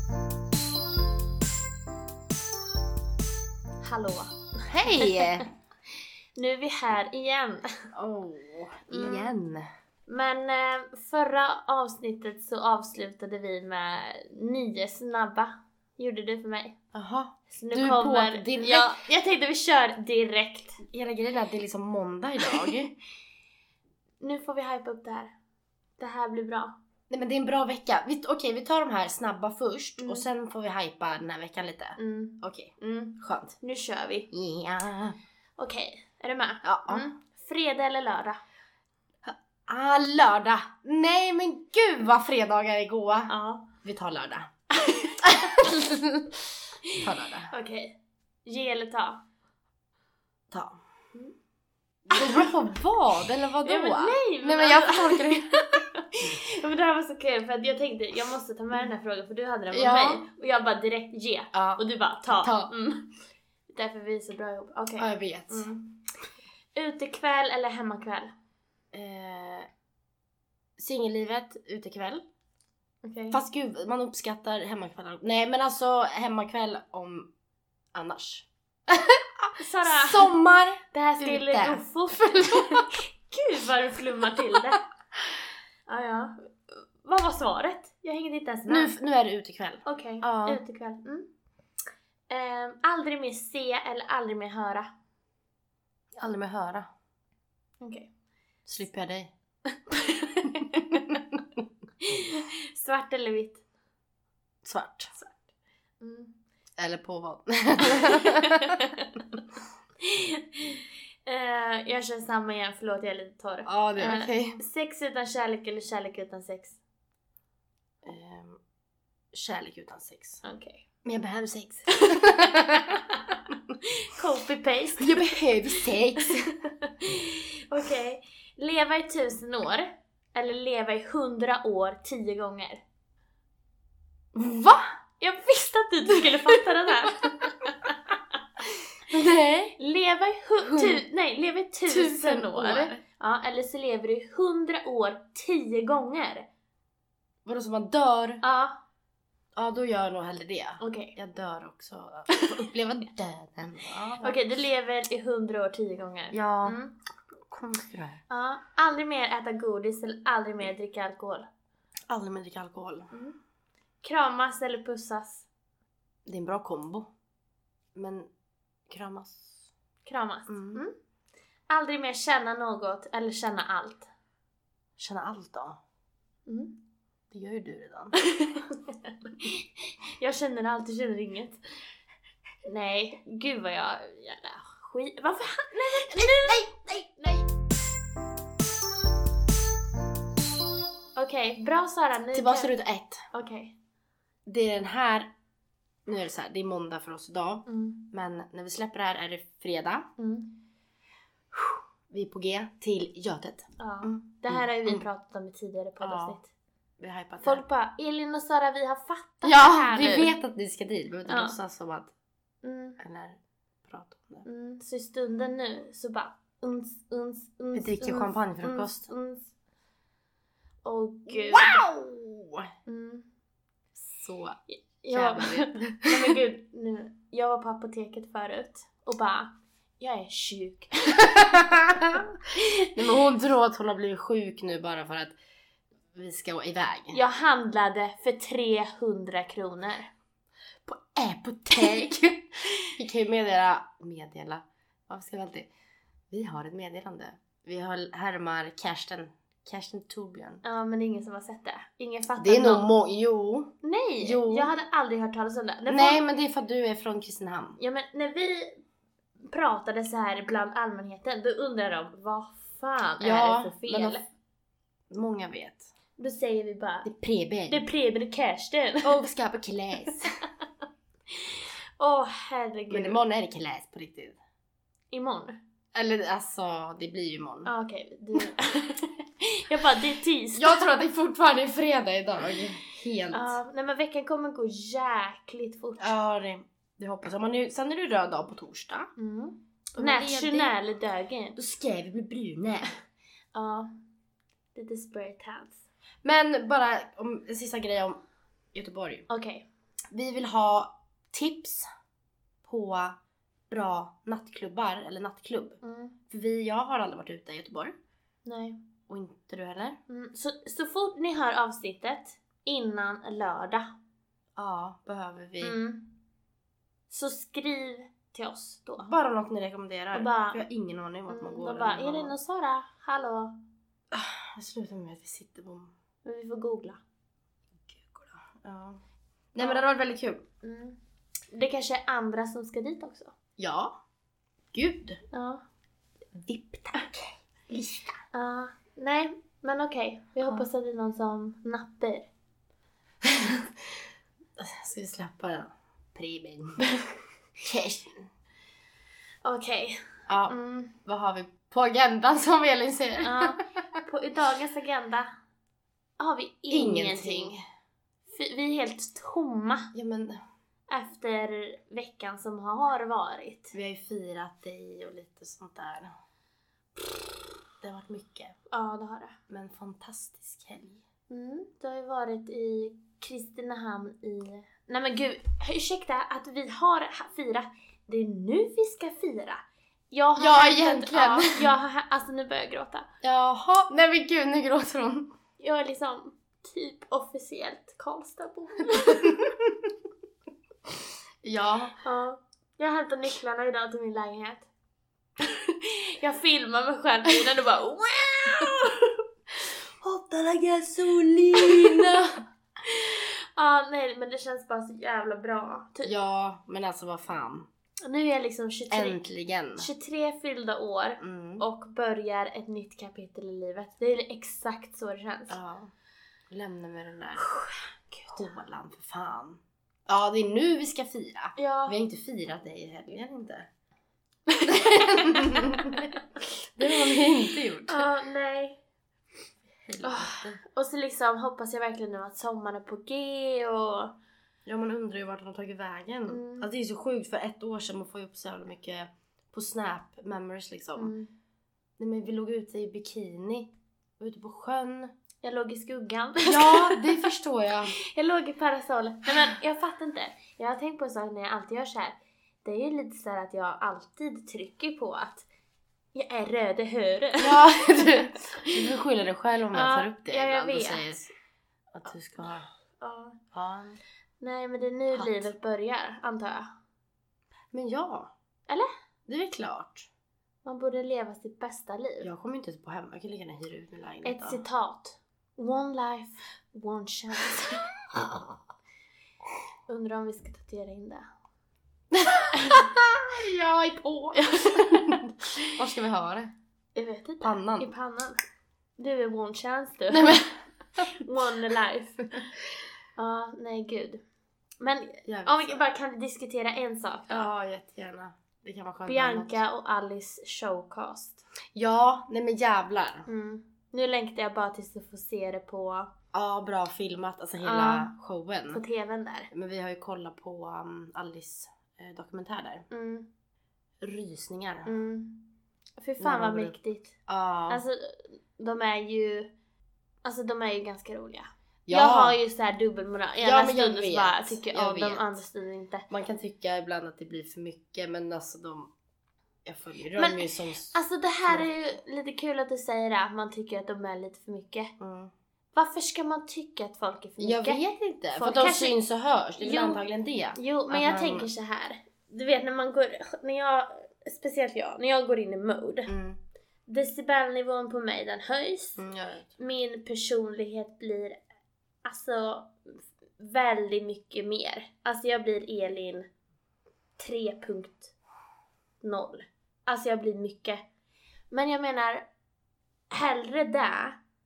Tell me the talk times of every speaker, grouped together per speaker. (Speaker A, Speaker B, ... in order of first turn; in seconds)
Speaker A: 3.8-5.4, 6.3-7.7, 8.9-9.3, 10.1-16.8, 17.5-20.9, 24.2-25.3, 26.0-26.7, 30.0-30.2, 32.0-34.3, 35.6-38.4, 43.3-43.7, 44.8-46.0, 47.5-49.2, 52.1-52.5, 53.6-63.1, 63.7-65.8, 66.7-68.3, 73.0-73.4, 79.5-80.3, 80.9-84.9, 85.9-88.9, 89.8-91.3, 92.3-94.9, 97.8-98.1, 99.9-101.2, 102.0-103.6, 105.1-105.4, 106.0-106.3, 107.9-109.3, 110.0-116.8, 120.4-120.8, 123.1-123.4, 124.0-132.8, 135.2-138.2, 139.8-146.5, 148.4-148.8, 150.8-151.2, 154.2-156.9, 158.3-161.5, 163.1-163.4, 164.0-165.5, 170.1-170.9, 171.7-174.1, 176.5-176.8, 178.2-181.6, 182.7-187.4, 191.2-192.7, 193.3-193.8, 197.7-198.1, 200.2-200.6, 203.8-206.5, 207.4-210.3, 211.2-211.6, 212.6-213.0, 214.4-219.5, 220.8-221.9, 222.9-223.3, 224.7-231.7, 237.1-240.1, 250.6-252.9, 253.8-256.2, 257.8-258.8, 259.5-264.2, 266.2-267.1, 267.7-269.2, 271.4-273.2, 275.1-275.6, 277.6-280.9, 283.3-286.1, 289.2-291.6, 293.5-293.9, 294.8-295.8, 299.3-299.7, 305.8-306.2, 308.4-308.8, 310.1-313.9, 315.6-316.1, 317.1-319.1, 320.1-320.6, 321.3-323.6, 326.2-327.0, 329.6-329.8, 330.6-331.0, 331.5-333.3, 335.3-335.6, 338.3-342.3, 349.4-351.0, 353.2-355.3, 356.2-357.6, 358.3-359.9, 360.9-363.8, 368.7-369.4, 371.3-383.1, 385.6-389.4, 392.0-394.7, 395.8-399.1, 401.5-402.2, 402.9-406.1, 408.0-409.2, 409.8-415.6, 417.4-418.4, 421.6-422.0, 424.5-426.2, 427.9-428.8, 430.0-434.1, 436.3-436.7, 440.9-441.3, 445.4-447.3, 447.9-455.4, 456.1-457.7, 459.7-461.1, 463.0-463.4, 464.4-466.7, 470.6-472.3, 474.2-477.9, 479.9-481.2, 484.4-485.2, 486.9-488.4, 489.0-492.5, 493.2-494.2, 494.8-497.5, 499.1-501.4, 503.3-506.1, 507.6-508.1, 508.7-509.5, 512.9-513.3, 514.9-517.1, 517.7-519.5, 520.2-526.1, 530.2-534.9, 535.7-537.8, 538.4-539.0, 539.6-546.1, 546.9-549.0, 549.6-551.4, 552.0-556.3, 557.2-558.1, 559.0-560.8, 561.5-562.3, 563.1-564.2
Speaker B: 4.7-5.5, 7.9-9.7, 16.9-19.0, 20.9-22.9, 27.1-33.6, 34.3-35.2, 36.6-37.1, 39.2-44.5, 45.2-46.0, 47.0-47.5, 50.5-50.8, 52.1-55.7, 59.7-60.2, 61.5-62.7, 65.0-65.9, 68.9-69.7, 70.8-72.2, 73.3-77.3, 77.9-82.9, 88.7-90.6, 96.1-96.9, 98.7-99.3, 104.6-105.1, 106.8-108.8, 113.7-114.6, 118.0-118.6, 119.3-120.4, 121.0-123.0, 125.0-126.5, 134.3-134.9, 136.3-136.6, 139.1-139.8, 140.6-141.0, 141.9-143.0, 147.5-148.4, 149.6-154.4, 156.3-156.8, 157.5-158.2, 162.1-163.1, 166.2-167.1, 167.9-168.3, 168.9-169.7, 170.5-170.8, 175.0-175.8, 177.3-178.2, 186.1-187.2, 192.3-193.2, 194.5-195.3, 196.1-200.1, 201.5-205.1, 206.0-206.4, 207.0-207.6, 209.4-212.1, 213.0-214.5, 217.8-219.1, 221.3-222.7, 224.1-226.3, 231.2-232.2, 232.9-235.4, 236.1-237.2, 240.9-245.7, 246.3-250.6, 252.4-254.7, 255.9-257.8, 263.2-264.2, 265.1-265.9, 267.0-267.9, 269.0-270.3, 272.9-274.4, 275.9-277.7, 280.5-283.6, 286.0-289.1, 289.9-290.8, 291.6-292.9, 296.2-298.2, 298.7-299.3, 300.1-301.9, 302.6-303.1, 303.7-307.9, 309.1-310.0, 314.6-315.8, 319.0-322.4, 324.1-325.9, 327.9-329.0, 329.5-330.4, 333.6-334.0, 334.7-335.2, 336.3-338.2, 340.4-340.7, 343.2-344.0, 344.6-346.9, 347.6-348.3, 350.3-353.5, 356.7-357.6, 359.9-360.4, 363.7-366.1, 366.9-368.5, 369.5-371.0, 380.4-381.7, 383.2-385.3, 388.9-389.5, 391.4-392.0, 400.0-402.4, 406.0-407.7, 408.9-409.9, 411.2-411.6, 415.5-415.9, 416.5-417.5, 418.3-423.7, 424.7-426.1, 426.8-428.1, 429.9-430.6, 434.6-441.1, 442.0-445.1, 446.4-447.9, 457.4-461.3, 461.9-462.7, 463.5-464.0, 465.1-465.5, 467.7-468.3, 469.3-470.1, 472.2-474.6, 482.1-486.5, 487.4-487.9, 490.1-491.0, 495.2-495.8, 497.3-499.6, 501.7-503.3, 506.3-508.8, 509.5-512.9, 514.0-514.9, 516.2-516.8, 517.3-517.8, 521.9-522.4, 523.4-525.4, 526.1-528.9, 529.6-531.7, 535.0-535.3, 537.4-541.5, 546.1-546.4, 549.0-549.5